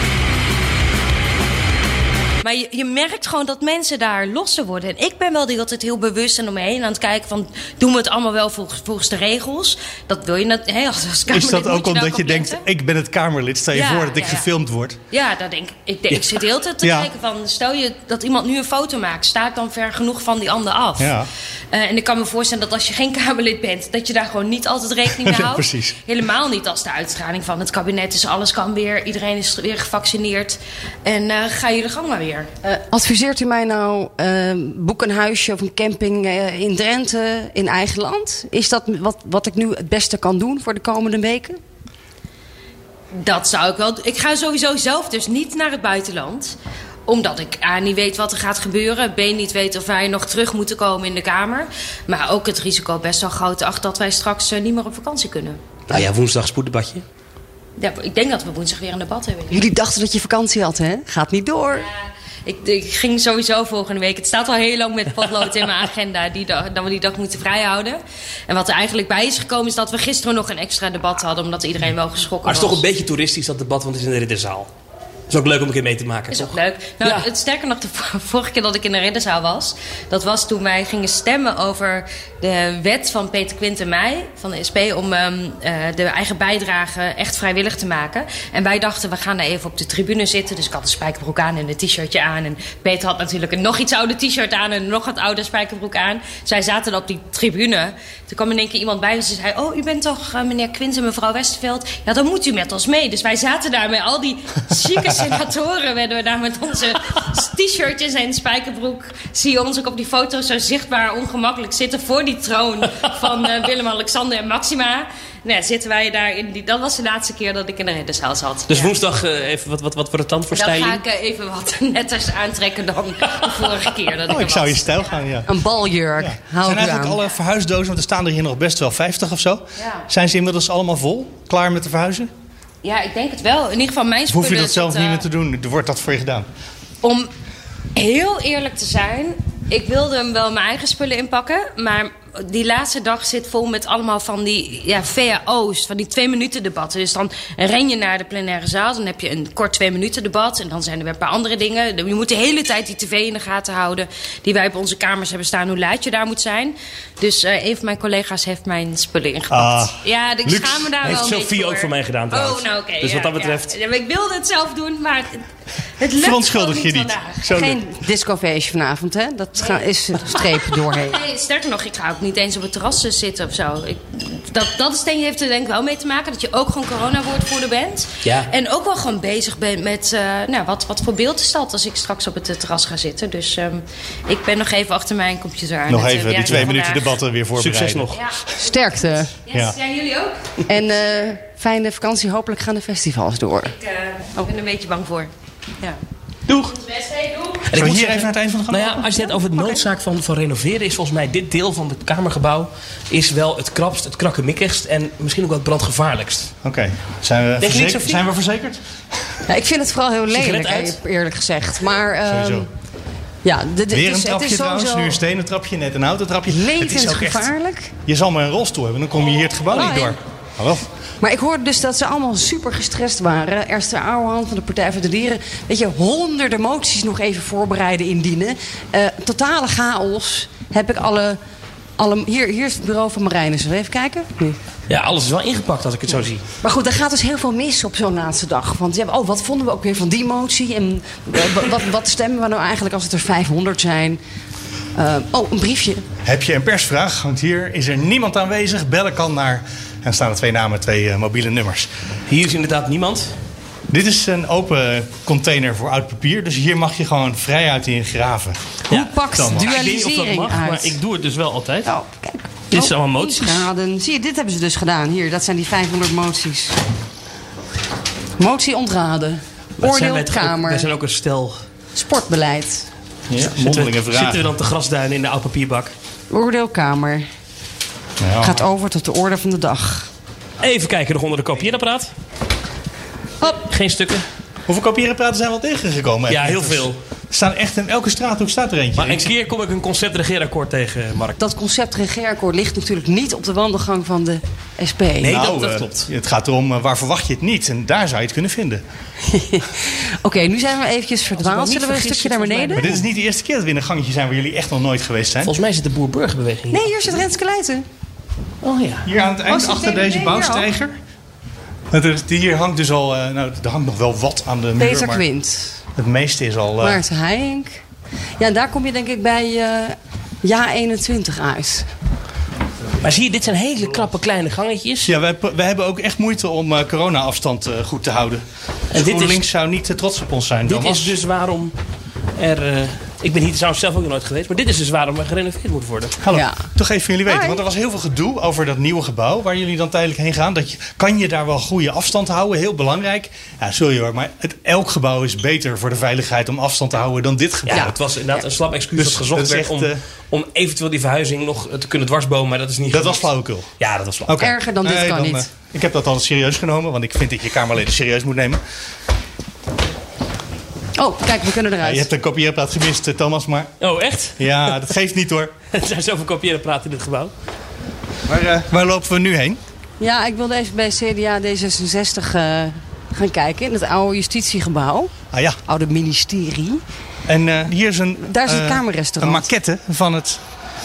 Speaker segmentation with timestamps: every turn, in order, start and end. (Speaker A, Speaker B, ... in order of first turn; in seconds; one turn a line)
Speaker A: 2.4-12.6
Speaker B: 11.3-15.0
Speaker A: 13.7-14.4
Speaker A: 15.1-21.0
Speaker C: 16.1-16.4
Speaker B: 16.8-17.1
Speaker B: 21.0-21.3
Speaker A: 21.7-32.5
Speaker B: 25.2-26.0
Speaker D: 32.6-41.6
Speaker A: 43.1-46.5
Speaker A: 47.1-55.6
Speaker C: 55.9-57.0
Speaker A: 57.8-59.5
Speaker D: 59.5-61.9
Speaker A: 61.8-72.8
Speaker C: 72.4-74.7
Speaker C: 75.3-77.3
Speaker A: 76.3-119.0
Speaker C: 118.7-121.0
Speaker A: 120.5-125.1
Speaker C: 123.3-123.9
Speaker B: 124.3-125.5
Speaker D: 125.5-127.2
Speaker B: 126.2-132.3
Speaker A: 132.8-135.2
Speaker B: 134.3-136.5
Speaker A: 137.0-137.3
Speaker A: 137.9-165.4
Speaker B: 159.5-161.1
Speaker C: 161.0-163.7
Speaker A: 166.0-167.4
Speaker B: 166.1-167.8
Speaker D: 167.4-171.2
Speaker A: 170.3-187.0
Speaker C: 178.2-178.5
Speaker B: 185.9-188.2
Speaker C: 186.4-186.8
Speaker C: 187.6-188.2
Speaker D: 188.6-189.4
Speaker A: 189.4-190.4
Speaker B: 189.5-189.8
Speaker D: 190.7-193.7
Speaker A: 193.7-195.3
Speaker C: 196.5-196.7
Speaker A: 196.7-197.6
Speaker B: 197.7-199.1
Speaker C: 197.7-206.5
Speaker B: 206.6-208.8
Speaker C: 207.6-208.2
Speaker D: 209.5-212.7
Speaker C: 210.3-211.0
Speaker B: 212.3-212.7
Speaker D: 213.4-215.2
Speaker B: 213.9-217.5
Speaker D: 216.5-217.9
Speaker B: 218.1-220.9
Speaker D: 219.7-220.2
Speaker D: 221.2-231.4
Speaker D: 232.0-234.6
Speaker C: 234.9-236.4
Speaker D: 236.6-244.2
Speaker D: 244.9-246.0
Speaker B: 246.2-251.9
Speaker C: 252.3-253.3
Speaker B: 253.9-258.6
Speaker D: 258.9-261.0
Speaker C: 258.9-261.9
Speaker B: 259.3-259.8
Speaker D: 261.8-266.8
Speaker C: 262.7-263.7
Speaker D: 268.4-270.9
Speaker C: 269.8-271.6
Speaker D: 271.9-272.9
Speaker B: 273.3-274.5
Speaker C: 273.4-275.9
Speaker D: 276.3-277.2
Speaker B: 278.2-278.6
Speaker D: 278.4-280.1
Speaker C: 280.6-282.1
Speaker C: 283.4-284.2
Speaker B: 284.7-289.3
Speaker C: 286.3-287.0
Speaker C: 288.9-291.4
Speaker D: 291.4-295.4
Speaker C: 295.2-296.1
Speaker B: 295.2-298.8
Speaker D: 299.3-302.9
Speaker C: 301.4-303.0
Speaker B: 302.8-305.5
Speaker C: 305.4-307.2
Speaker D: 306.7-307.8
Speaker C: 308.6-309.1
Speaker B: 309.0-310.9
Speaker D: 309.4-310.7
Speaker B: 311.9-315.2
Speaker D: 314.8-315.8
Speaker B: 315.9-317.0
Speaker D: 316.8-317.8
Speaker D: 318.4-321.9
Speaker C: 323.0-325.1
Speaker B: 325.0-331.2
Speaker C: 328.9-329.4
Speaker C: 330.7-331.7
Speaker C: 332.4-336.2
Speaker B: 336.2-347.9
Speaker D: 336.3-336.7
Speaker D: 337.2-337.6
Speaker C: 347.7-353.2
Speaker B: 348.9-350.0
Speaker B: 352.9-353.7
Speaker C: 353.8-354.4
Speaker B: 354.3-358.6
Speaker D: 354.4-355.5
Speaker D: 361.0-362.1
Speaker B: 361.8-363.7
Speaker C: 363.8-364.8
Speaker B: 364.4-365.5
Speaker C: 365.7-367.3
Speaker B: 368.3-369.6
Speaker D: 370.0-375.1
Speaker B: 375.3-375.6
Speaker D: 375.6-376.8
Speaker B: 377.2-380.4
Speaker D: 378.2-379.5